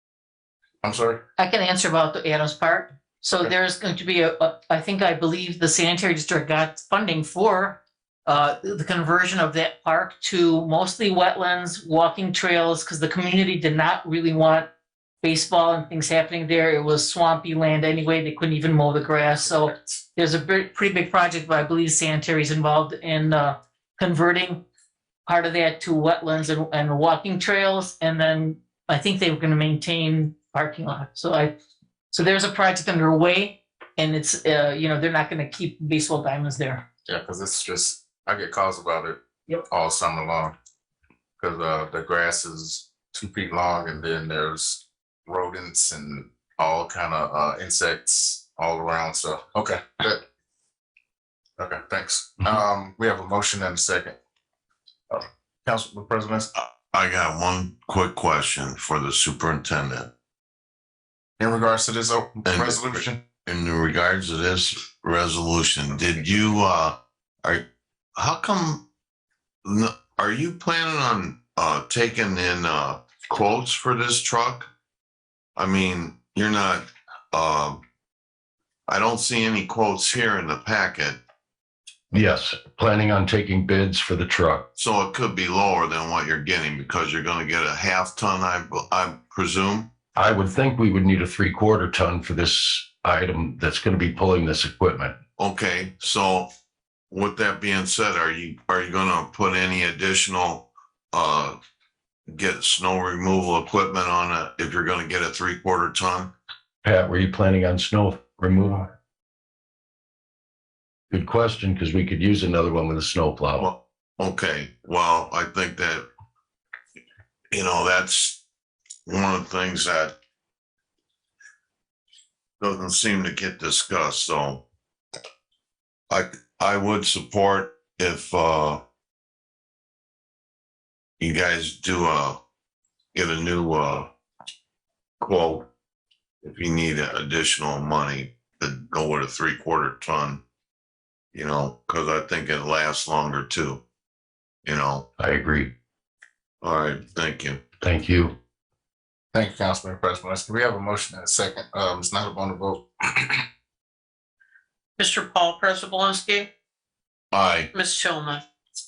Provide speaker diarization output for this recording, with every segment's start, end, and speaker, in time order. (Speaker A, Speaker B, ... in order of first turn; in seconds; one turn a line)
Speaker A: 0.8-1.2
Speaker B: 1.4-14.7
Speaker B: 15.2-24.6
Speaker B: 25.3-31.5
Speaker B: 32.1-36.8
Speaker A: 37.1-39.2
Speaker A: 39.7-40.5
Speaker A: 41.4-50.2
Speaker A: 51.6-54.2
Speaker A: 55.1-56.5
Speaker C: 56.6-60.1
Speaker A: 61.4-63.2
Speaker C: 62.5-67.6
Speaker C: 68.2-68.8
Speaker C: 69.7-74.7
Speaker C: 75.6-77.8
Speaker C: 78.9-81.2
Speaker D: 82.1-84.7
Speaker C: 84.8-89.9
Speaker D: 90.2-95.2
Speaker C: 95.4-96.5
Speaker C: 97.1-101.6
Speaker C: 102.3-106.3
Speaker D: 106.8-108.9
Speaker D: 111.1-113.7
Speaker C: 113.6-116.1
Speaker C: 117.5-118.4
Speaker C: 119.1-120.1
Speaker C: 122.6-124.6
Speaker C: 126.1-128.8
Speaker C: 131.2-132.4
Speaker C: 133.1-134.1
Speaker C: 135.2-135.7
Speaker C: 136.4-140.4
Speaker C: 141.3-143.8
Speaker C: 144.7-145.1
Speaker D: 145.2-145.7
Speaker C: 146.6-147.6
Speaker D: 147.8-148.3
Speaker A: 149.3-153.4
Speaker E: 155.0-156.5
Speaker C: 157.3-157.7
Speaker E: 157.7-158.4